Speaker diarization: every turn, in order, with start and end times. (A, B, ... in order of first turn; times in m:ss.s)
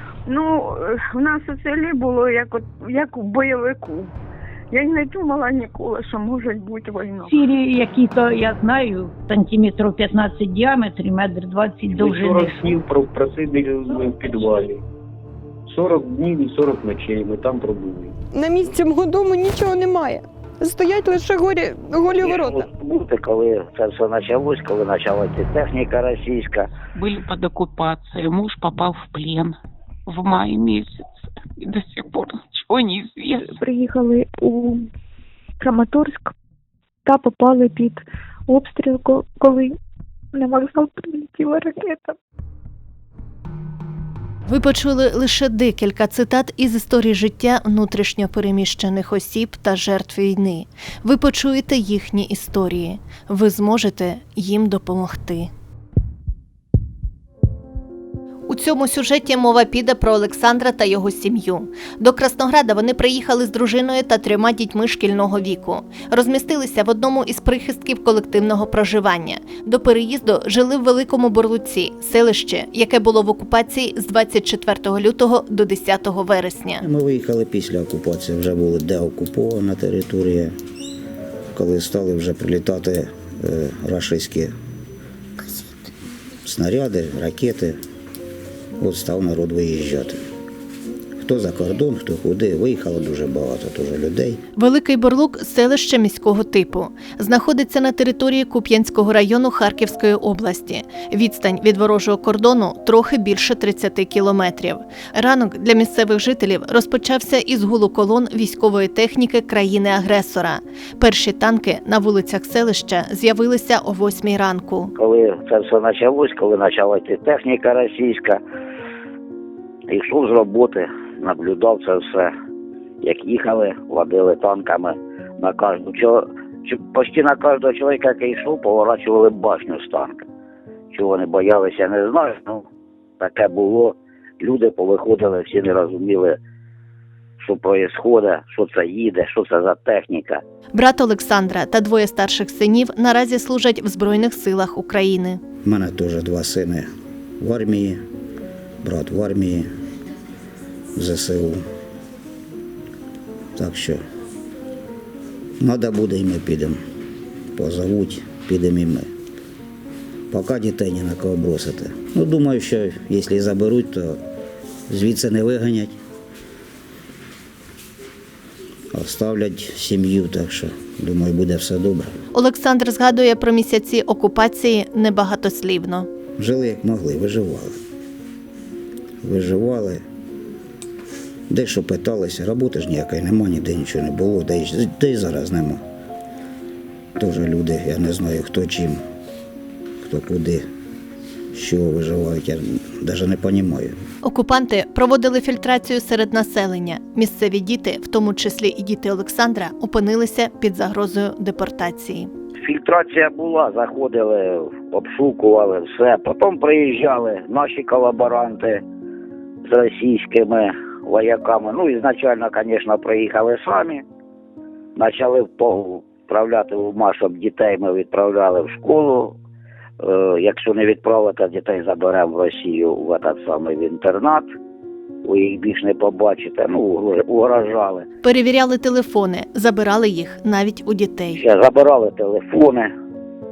0:00.3-0:04.1 A
0:04.7-0:07.4 A
0:07.3-0:12.8 B
0:11.9-0:14.8 C
0:15.7-0:18.2 C
0:18.3-0:22.6 D
0:22.2-0:26.7 E
0:27.0-0:29.6 F
0:30.1-0:31.0 F
0:31.6-0:33.5 F
0:33.6-0:34.9 G
0:35.6-0:36.3 G
0:37.0-0:39.8 G
0:40.3-0:42.2 G
0:44.5-0:55.5 H
0:58.5-1:16.8 H
1:16.8-1:20.5 I
1:21.5-1:24.5 I
1:26.4-1:27.8 I
1:28.8-1:30.2 I
1:31.2-1:34.4 I
1:34.6-1:54.9 H
1:55.0-1:58.4 E
1:59.9-2:02.3 E
2:03.0-2:10.2 E
2:10.9-2:12.7 E
2:13.2-2:16.4 E
2:17.4-2:20.4 E
2:20.7-2:25.4 H
2:25.6-2:26.8 I
2:27.4-2:28.0 I
2:28.8-2:29.7 I
2:31.0-2:31.6 I
2:33.6-2:34.0 I
2:35.6-2:36.8 I
2:37.6-2:39.1 I
2:40.3-2:44.2 I
2:44.9-2:46.0 I
2:48.9-2:52.1 I
2:52.3-2:56.1 H
2:56.4-2:57.7 I
2:59.2-3:00.0 I
3:01.5-3:05.8 I
3:07.2-3:09.0 I
3:10.0-3:10.6 I
3:11.5-3:14.0 I
3:14.2-3:22.3 H
3:22.6-3:28.8 E
3:29.7-3:34.0 E
3:35.0-3:39.4 E
3:40.0-3:44.4 E
3:45.2-3:48.1 E
3:48.2-3:51.4 H
3:51.4-3:52.9 E